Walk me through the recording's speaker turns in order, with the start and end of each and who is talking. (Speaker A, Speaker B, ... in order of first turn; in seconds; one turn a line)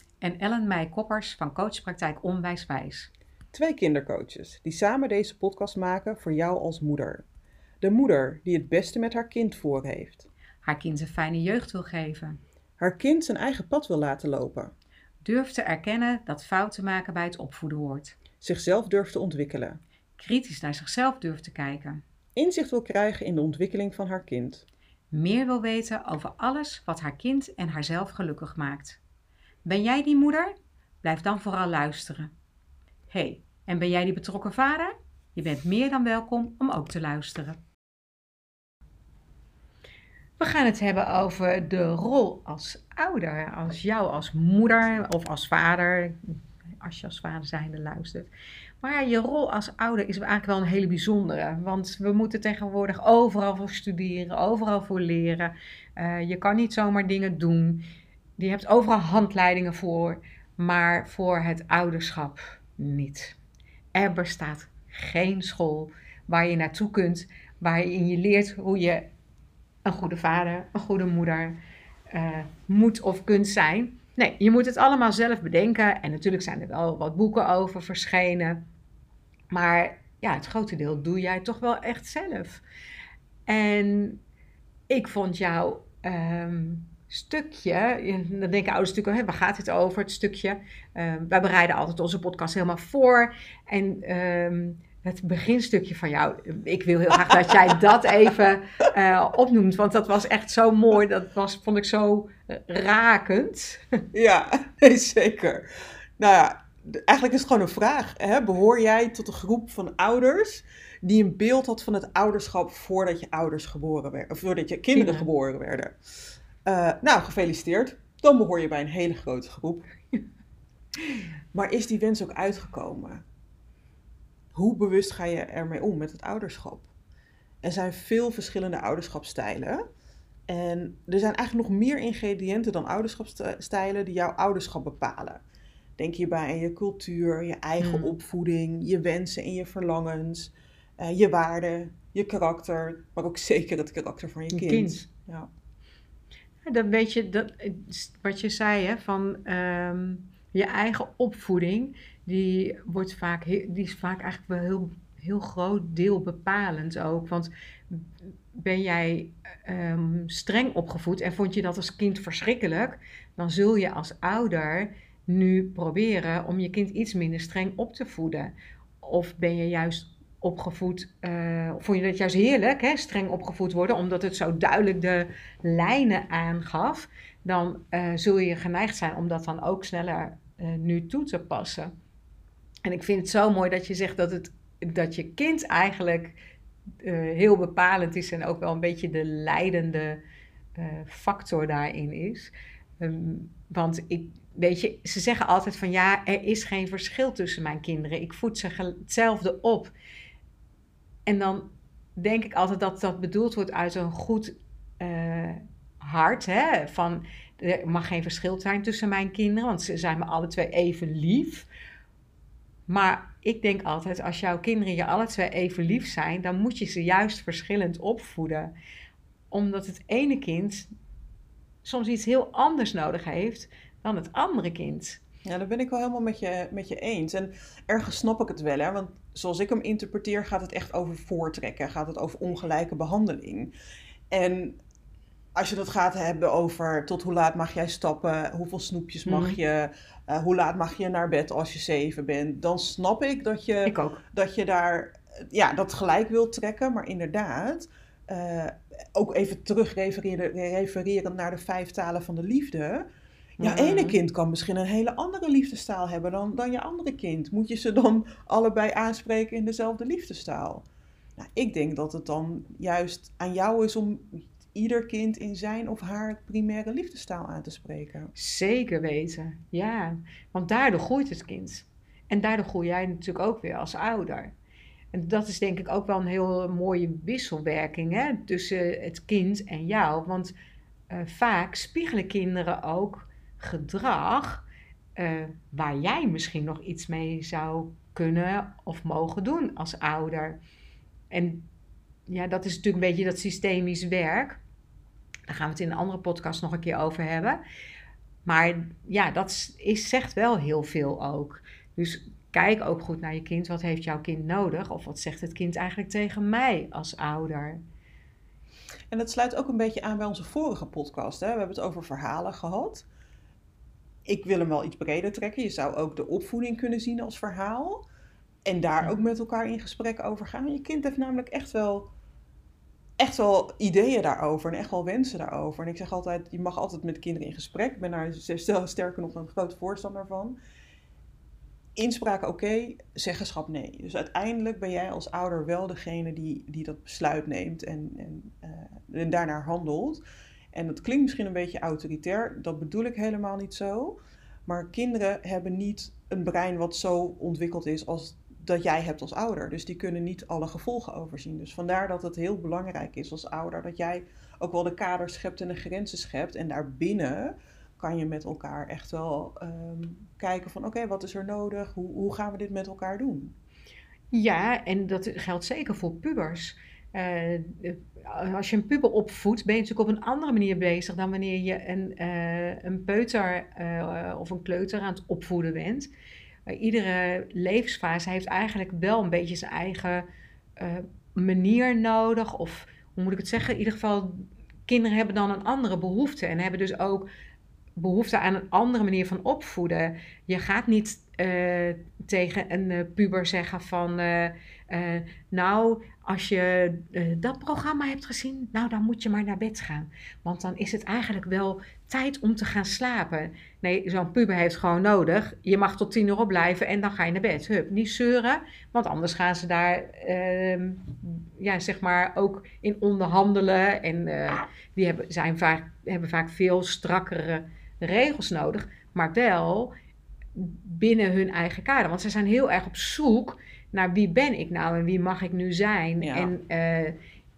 Speaker A: 0.2-3.1
Speaker B: 3.5-7.2
Speaker B: 7.8-10.3
Speaker A: 10.6-12.4
Speaker B: 12.8-14.7
Speaker A: 15.2-18.2
Speaker B: 18.4-19.8
Speaker A: 20.2-22.0
Speaker B: 22.4-24.6
Speaker A: 25.1-29.0
Speaker A: 29.7-32.3
Speaker A: 33.1-37.6
Speaker A: 40.4-48.3
Speaker A: 48.8-57.8
Speaker A: 58.4-63.4
Speaker A: 63.9-69.1
Speaker A: 69.8-71.6
Speaker A: 72.1-78.6
Speaker A: 79.5-82.6
Speaker A: 83.5-84.2
Speaker A: 84.9-104.0
Speaker B: 104.1-116.0
Speaker A: 114.9-115.3
Speaker B: 116.7-119.9
Speaker B: 121.5-123.2
Speaker B: 124.5-126.9
Speaker B: 127.6-129.8
Speaker B: 130.5-135.4
Speaker B: 136.0-145.5
Speaker A: 137.8-138.1
Speaker A: 144.5-145.1
Speaker A: 146.6-181.9
Speaker A: 182.8-186.4
Speaker A: 187.0-190.2
Speaker A: 190.8-199.9
Speaker A: 201.3-211.7
Speaker A: 212.9-218.7
Speaker A: 219.5-220.9
Speaker A: 221.8-225.2
Speaker B: 225.4-233.7
Speaker B: 234.3-234.8
Speaker B: 235.5-253.1
Speaker A: 239.2-239.6
Speaker A: 243.9-244.2
Speaker B: 253.6-260.8
Speaker A: 253.6-254.2
Speaker B: 261.4-268.3
Speaker A: 268.3-274.5
Speaker A: 275.1-280.5
Speaker A: 281.1-284.6
Speaker A: 285.1-290.6
Speaker A: 291.3-291.7
Speaker A: 292.3-294.6
Speaker A: 295.5-297.6
Speaker A: 298.4-307.8
Speaker B: 309.1-313.1
Speaker B: 314.2-318.0
Speaker B: 318.6-322.1
Speaker B: 323.2-330.6
Speaker B: 331.9-340.2
Speaker B: 340.7-363.6
Speaker A: 364.3-376.1
Speaker A: 376.7-380.2
Speaker A: 380.8-387.3
Speaker A: 388.0-419.9
Speaker A: 420.6-427.1
Speaker B: 426.2-426.5